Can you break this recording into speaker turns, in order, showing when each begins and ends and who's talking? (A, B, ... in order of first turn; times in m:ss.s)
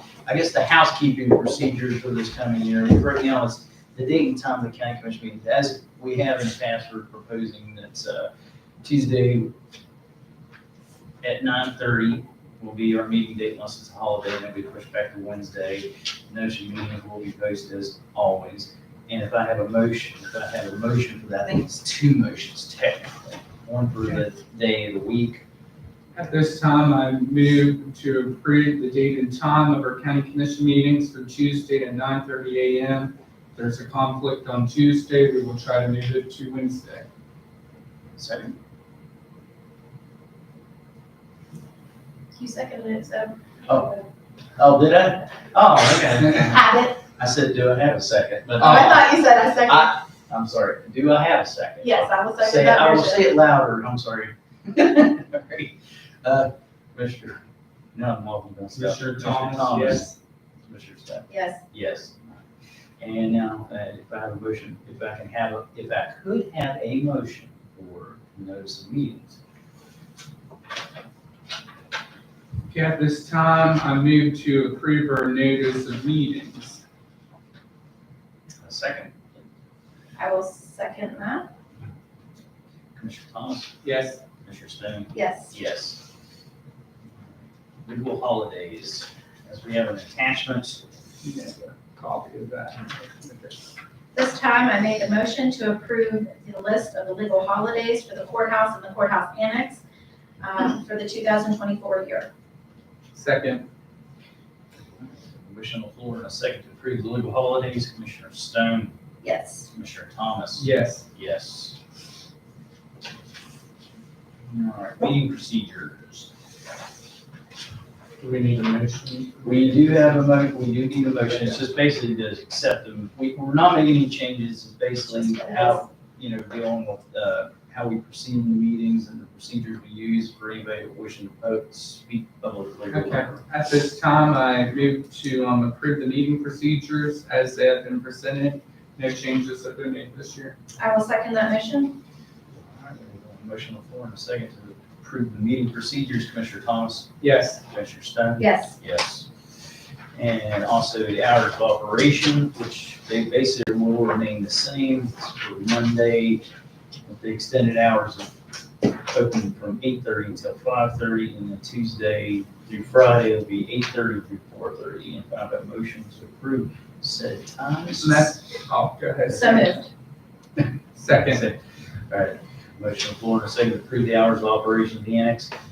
0:00.3-0:08.3 A
0:08.8-0:09.5 A
0:11.2-0:25.4 A
0:26.2-0:37.1 B
0:38.2-0:38.5 A
0:42.3-0:43.4 C
0:43.7-0:44.0 A
0:44.6-0:49.1 A
0:46.5-0:47.0 C
0:48.6-0:50.0 C
0:49.7-0:57.4 A
0:51.8-0:53.3 C
0:57.9-1:00.1 A
0:58.8-1:00.2 B
1:00.7-1:02.4 A
1:01.3-1:01.6 C
1:03.0-1:09.4 A
1:12.7-1:16.8 B
1:18.6-1:19.4 A
1:20.2-1:21.5 C
1:23.0-1:23.7 A
1:23.8-1:24.2 B
1:24.4-1:26.0 A
1:25.1-1:25.5 C
1:27.8-1:30.8 A
1:31.2-1:33.6 B
1:34.1-1:39.8 C
1:40.4-1:42.3 C
1:43.2-1:43.7 B
1:45.0-1:48.9 A
1:49.2-1:49.7 C
1:49.7-1:51.8 A
1:50.6-1:51.0 B
1:54.5-1:56.3 A
1:58.2-2:00.3 B
1:59.4-2:13.4 A
2:01.3-2:01.6 B
2:05.1-2:05.9 C
2:12.9-2:20.6 B
2:20.8-2:22.0 C
2:22.6-2:27.1 A
2:27.2-2:27.6 B
2:27.6-2:29.4 A
2:28.4-2:28.8 C
2:30.2-2:36.4 A
2:37.1-2:38.3 A
2:39.1-2:48.3 A
2:48.0-2:49.8 B
2:49.3-2:49.9 C
2:50.6-2:51.4 B
2:51.1-2:55.5 A